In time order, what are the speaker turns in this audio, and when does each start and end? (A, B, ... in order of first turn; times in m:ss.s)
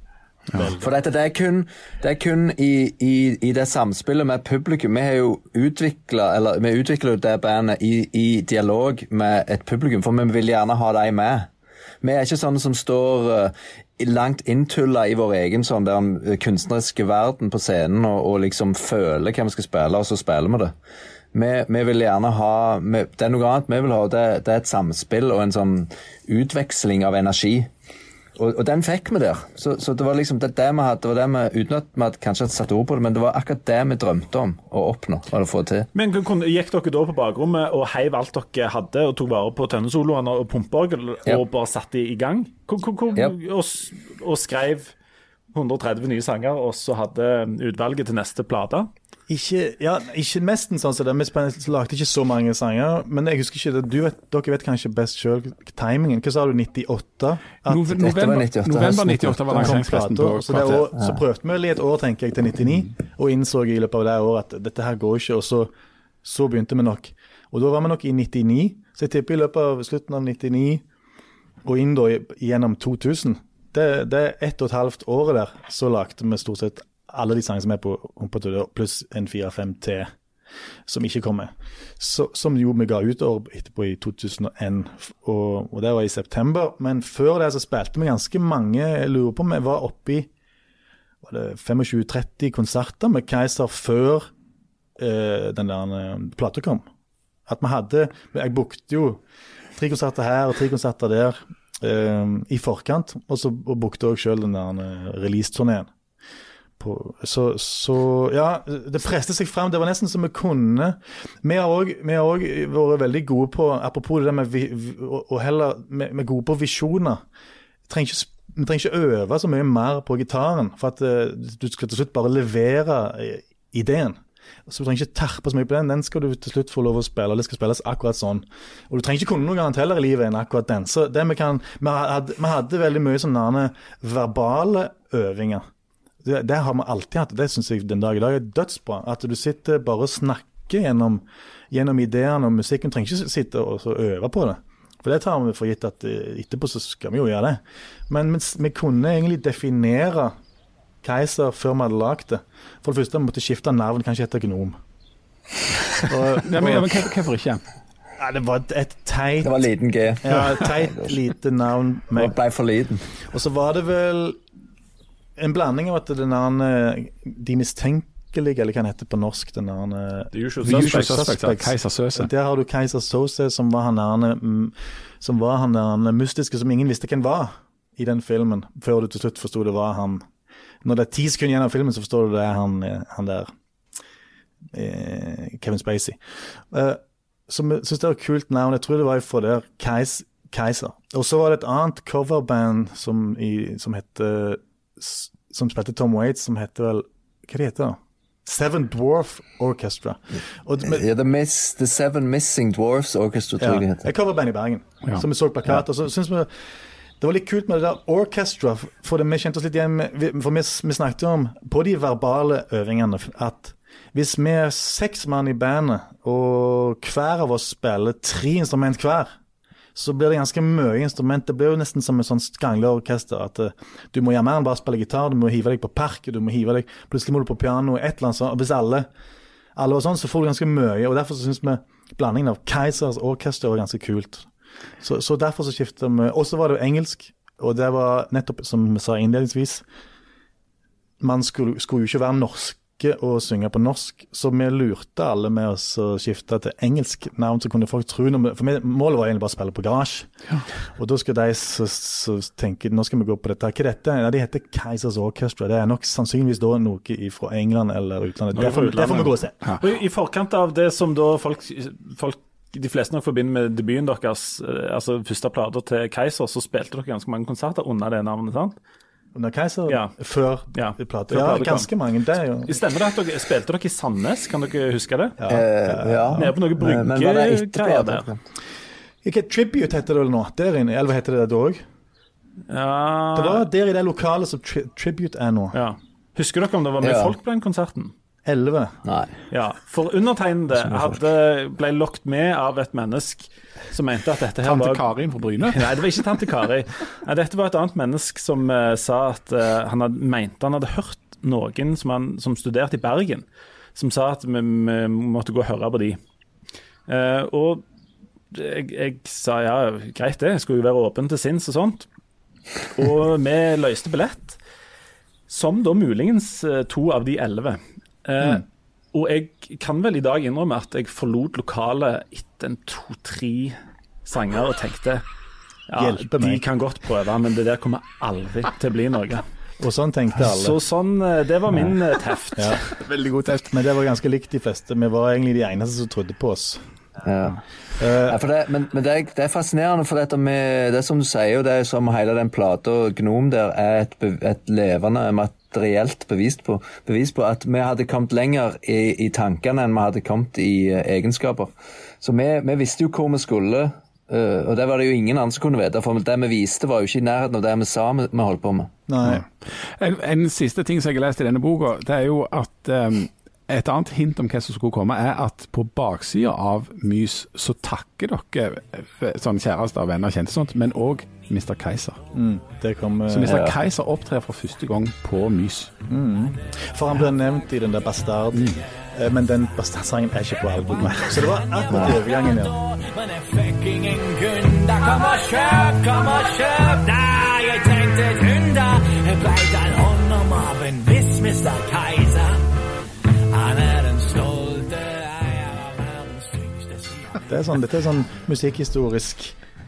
0:00.5-0:00.9 A
0:00.6-0:11.5 B
0:12.0-0:20.7 B
0:21.3-0:27.7 B
0:28.4-0:35.9 B
0:35.9-0:44.9 C
0:45.5-0:48.9 C
0:49.3-0:58.3 A
0:57.7-1:00.9 D
0:58.0-0:59.7 B
0:59.5-1:05.7 A
1:06.2-1:10.8 A
1:11.6-1:20.1 A
1:20.9-1:30.3 A
1:31.2-1:34.3 A
1:35.0-1:36.8 A
1:37.5-1:39.2 A
1:39.8-1:45.9 A
1:46.8-1:57.2 A
1:57.9-2:15.6 A
2:16.2-2:30.4 A
2:31.0-2:34.8 A
2:36.1-2:36.9 A
2:36.4-2:37.6 D
2:38.2-2:39.7 A
2:39.4-2:41.1 B
2:40.2-2:42.4 A
2:42.2-2:43.1 B
2:43.3-2:44.4 A
2:45.4-3:00.3 A
2:50.3-2:51.1 C
2:50.6-2:52.3 D
3:00.8-3:03.5 A
3:04.7-3:21.0 A
3:20.9-3:24.0 B
3:23.6-3:26.5 A
3:27.2-3:39.3 A
3:40.0-3:49.1 A
3:49.8-3:54.5 A
3:55.0-3:59.8 A
4:01.2-4:10.3 A
4:11.0-4:19.6 A
4:18.5-4:28.8 C
4:29.4-4:32.8 A
4:29.9-4:30.2 C
4:30.7-4:31.9 C
4:32.7-4:35.4 C
4:35.4-4:36.5 A
4:35.5-4:38.4 B
4:36.4-4:38.3 C
4:39.2-4:41.8 A
4:42.7-4:43.6 C
4:43.3-4:45.8 A
4:45.7-4:48.1 C
4:47.0-4:47.4 B
4:48.4-4:49.0 A
4:49.0-4:49.3 B
4:49.5-4:55.1 C
4:54.6-4:55.8 D
4:55.7-5:06.2 C
5:07.1-5:07.8 C
5:08.5-5:12.1 C
5:13.0-5:14.6 C
5:15.5-5:25.2 C
5:25.9-5:29.4 C
5:26.0-5:26.6 A
5:29.8-5:30.8 A
5:30.4-5:32.8 C
5:32.6-5:32.8 A
5:33.0-5:33.7 D
5:33.7-5:36.8 A
5:37.2-5:37.6 B
5:38.0-5:38.4 A
5:38.2-5:58.9 B
5:59.1-5:59.5 A
5:59.2-6:12.2 D
6:12.3-6:13.6 A
6:13.3-6:15.9 D
6:13.5-6:13.8 B
6:16.1-6:22.8 A
6:18.5-6:18.8 D
6:21.1-6:32.6 E
6:21.9-6:22.2 B
6:33.5-6:37.5 E
6:37.5-6:39.6 A